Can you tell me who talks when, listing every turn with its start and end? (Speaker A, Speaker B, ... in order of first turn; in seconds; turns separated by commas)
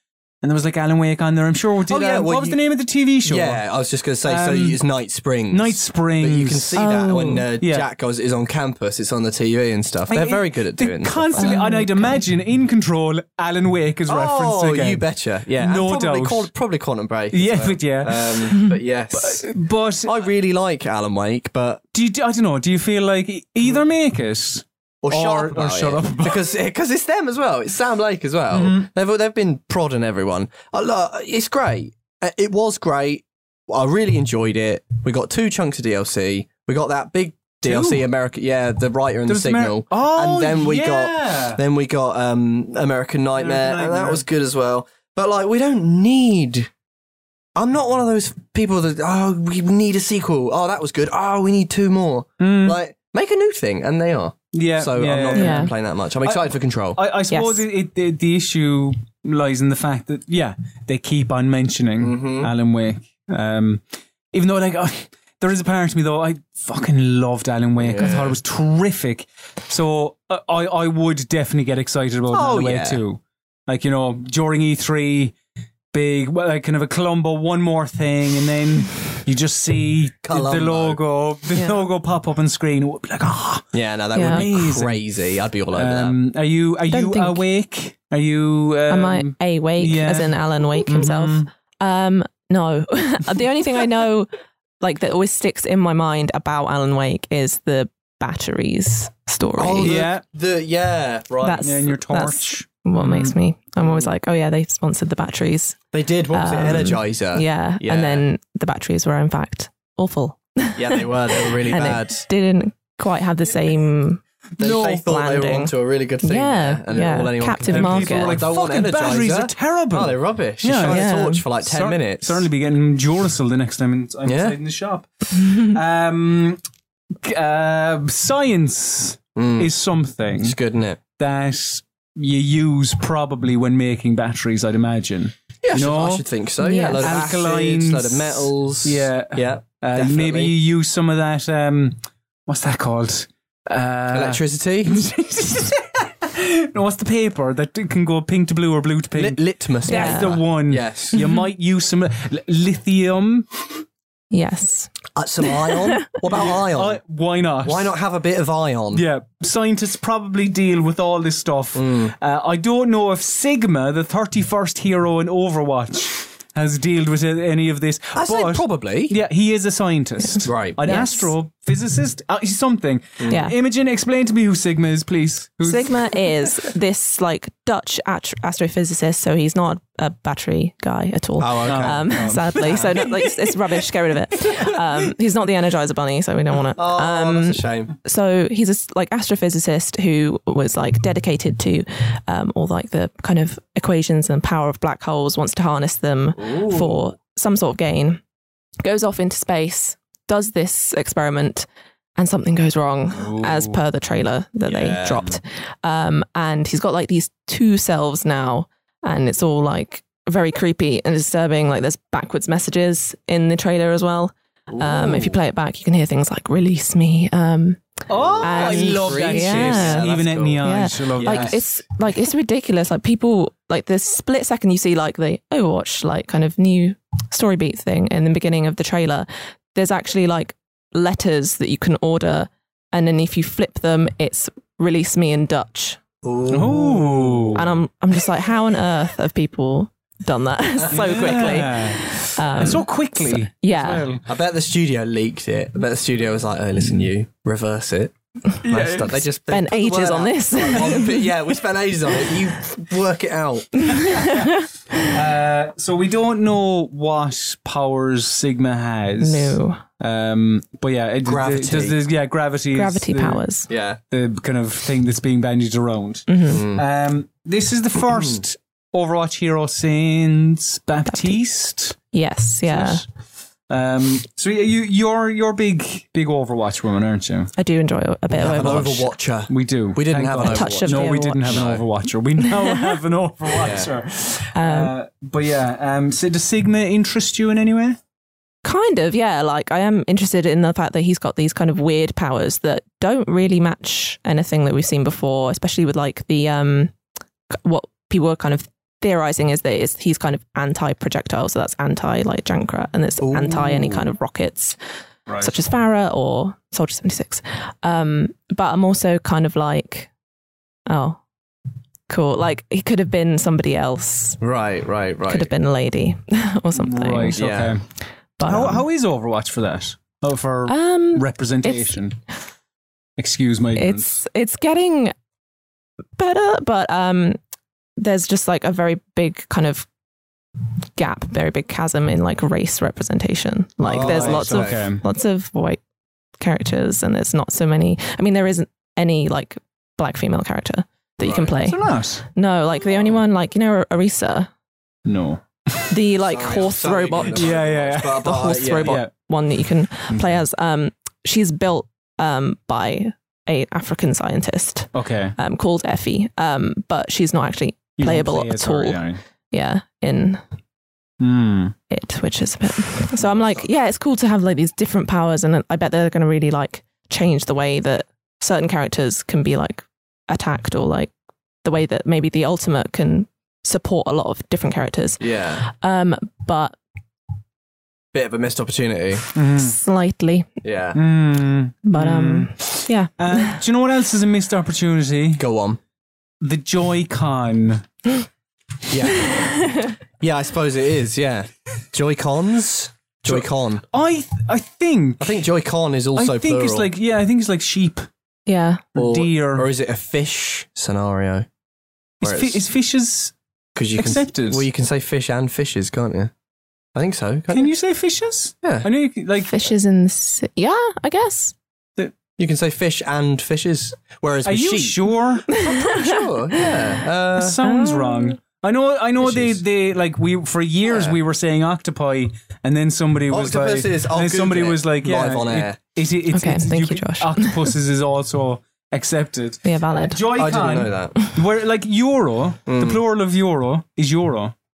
Speaker A: 0.4-3.6, Speaker B: 1.9-2.6, Speaker B: 3.2-11.6, Speaker A: 4.2-4.8, Speaker A: 5.5-6.9, Speaker C: 6.8-7.5, Speaker A: 7.6-7.9, Speaker A: 10.1-15.0, Speaker C: 11.4-12.2, Speaker B: 14.1-21.8, Speaker A: 15.6-16.5, Speaker A: 17.3-20.1, Speaker A: 21.9-26.4, Speaker B: 25.0-46.7, Speaker A: 28.5-28.9, Speaker A: 37.6-38.0, Speaker A: 39.3-41.6, Speaker A: 43.4-44.2, Speaker B: 47.6-57.0, Speaker A: 52.4-52.8, Speaker A: 54.5-55.7, Speaker C: 55.4-55.7, Speaker A: 56.2-75.3, Speaker C: 57.3-57.6, Speaker B: 62.0-62.5, Speaker B: 67.8-68.4, Speaker B: 72.3-73.0, Speaker A: 75.9-85.0, Speaker B: 80.2-81.0, Speaker C: 81.5-81.8, Speaker B: 83.7-86.2, Speaker C: 84.1-84.5, Speaker A: 85.7-91.5, Speaker C: 86.9-87.4, Speaker C: 88.9-94.3, Speaker C: 94.8-100.0, Speaker B: 99.6-101.8, Speaker A: 99.8-100.2, Speaker C: 101.4-105.8, Speaker A: 101.6-103.3, Speaker B: 103.8-104.1, Speaker B: 105.9-108.2, Speaker C: 106.3-118.4, Speaker B: 110.8-112.3, Speaker B: 114.6-122.5, Speaker A: 117.7-126.6, Speaker C: 120.8-121.4, Speaker B: 124.2-124.6, Speaker A: 127.2-130.6, Speaker B: 129.3-129.7, Speaker B: 130.4-131.0, Speaker A: 131.2-136.2, Speaker B: 135.6-140.6, Speaker C: 136.6-137.2, Speaker A: 136.9-142.0, Speaker A: 142.5-153.7, Speaker B: 144.1-145.0, Speaker B: 149.2-151.2, Speaker C: 149.9-150.4, Speaker C: 151.2-151.4, Speaker C: 154.3-154.9, Speaker B: 155.2-157.0, Speaker C: 155.6-156.0, Speaker A: 156.3-157.9, Speaker B: 157.6-159.0, Speaker A: 158.9-176.0, Speaker B: 161.8-162.1, Speaker B: 168.1-169.2, Speaker C: 170.3-171.3, Speaker B: 170.4-170.8, Speaker C: 173.3-173.6, Speaker C: 175.6-198.2, Speaker B: 181.4-183.0, Speaker A: 181.6-183.5, Speaker B: 186.8-187.9, Speaker B: 196.4-197.0, Speaker C: 198.8-220.1, Speaker B: 203.2-203.7, Speaker B: 204.7-205.4, Speaker B: 214.7-215.4, Speaker B: 218.1-221.6, Speaker A: 218.1-221.6, Speaker C: 220.6-236.0, Speaker B: 236.2-237.7, Speaker A: 236.5-237.7, Speaker C: 237.6-244.1, Speaker A: 240.9-244.2, Speaker B: 244.3-254.3, Speaker A: 248.7-249.1, Speaker C: 249.4-251.3, Speaker C: 254.1-254.6, Speaker A: 254.1-263.4, Speaker C: 259.2-259.8, Speaker B: 261.2-262.0, Speaker C: 262.7-263.7, Speaker B: 263.7-264.0, Speaker A: 264.1-272.0, Speaker C: 266.3-266.6, Speaker B: 266.5-266.8, Speaker C: 271.1-271.4, Speaker C: 272.1-273.0, Speaker A: 272.7-273.1, Speaker A: 273.7-277.5, Speaker C: 277.6-279.1, Speaker B: 278.3-281.8, Speaker A: 279.5-288.0, Speaker C: 280.4-281.6, Speaker C: 282.4-282.9, Speaker B: 283.6-283.9, Speaker C: 284.6-284.9, Speaker C: 288.6-296.9, Speaker C: 297.5-304.8, Speaker B: 303.2-304.1, Speaker A: 305.3-305.5, Speaker C: 305.4-310.1, Speaker C: 310.9-311.2, Speaker C: 312.1-314.4, Speaker B: 314.4-315.5, Speaker C: 315.3-317.4, Speaker A: 316.8-317.8, Speaker B: 317.4-317.8, Speaker C: 318.4-318.9, Speaker A: 318.4-322.2, Speaker C: 320.7-321.9, Speaker A: 323.2-324.2, Speaker C: 323.8-325.1, Speaker C: 326.2-327.4, Speaker C: 328.0-329.9, Speaker C: 331.0-335.8, Speaker B: 333.9-334.8, Speaker A: 333.9-335.0, Speaker C: 336.4-341.8, Speaker B: 341.2-341.5, Speaker A: 341.6-342.2, Speaker C: 342.3-344.5, Speaker A: 345.1-345.9, Speaker C: 345.9-347.5, Speaker B: 346.3-349.0, Speaker A: 347.3-349.1, Speaker C: 348.2-360.4, Speaker A: 350.1-350.4, Speaker A: 354.9-355.4, Speaker A: 358.0-359.2, Speaker A: 361.2-361.8, Speaker C: 361.9-371.1, Speaker C: 371.6-376.8, Speaker B: 375.2-375.6, Speaker B: 378.1-379.3, Speaker A: 379.4-379.8, Speaker C: 379.6-380.5, Speaker B: 380.6-381.0, Speaker A: 380.9-385.4, Speaker C: 381.9-383.6, Speaker B: 385.4-385.8, Speaker A: 386.4-387.8, Speaker B: 388.9-389.6, Speaker C: 389.3-389.9, Speaker B: 390.2-393.8, Speaker A: 393.3-395.4, Speaker B: 395.2-396.9, Speaker A: 396.2-398.1, Speaker C: 398.5-398.9, Speaker A: 398.9-399.7, Speaker B: 399.0-401.5, Speaker B: 402.2-402.6, Speaker A: 402.2-403.3, Speaker B: 403.8-406.3, Speaker A: 404.0-404.6, Speaker B: 406.9-407.7, Speaker A: 407.5-409.6, Speaker B: 408.6-408.9, Speaker C: 409.5-411.6, Speaker B: 412.2-415.0, Speaker A: 414.4-415.6, Speaker B: 415.5-417.6, Speaker C: 415.6-416.3, Speaker A: 417.4-434.5, Speaker C: 417.6-418.4, Speaker B: 419.2-419.6, Speaker B: 420.9-421.2, Speaker B: 423.3-425.8, Speaker C: 426.3-427.7, Speaker C: 429.6-430.2, Speaker B: 430.4-431.2, Speaker B: 432.7-433.0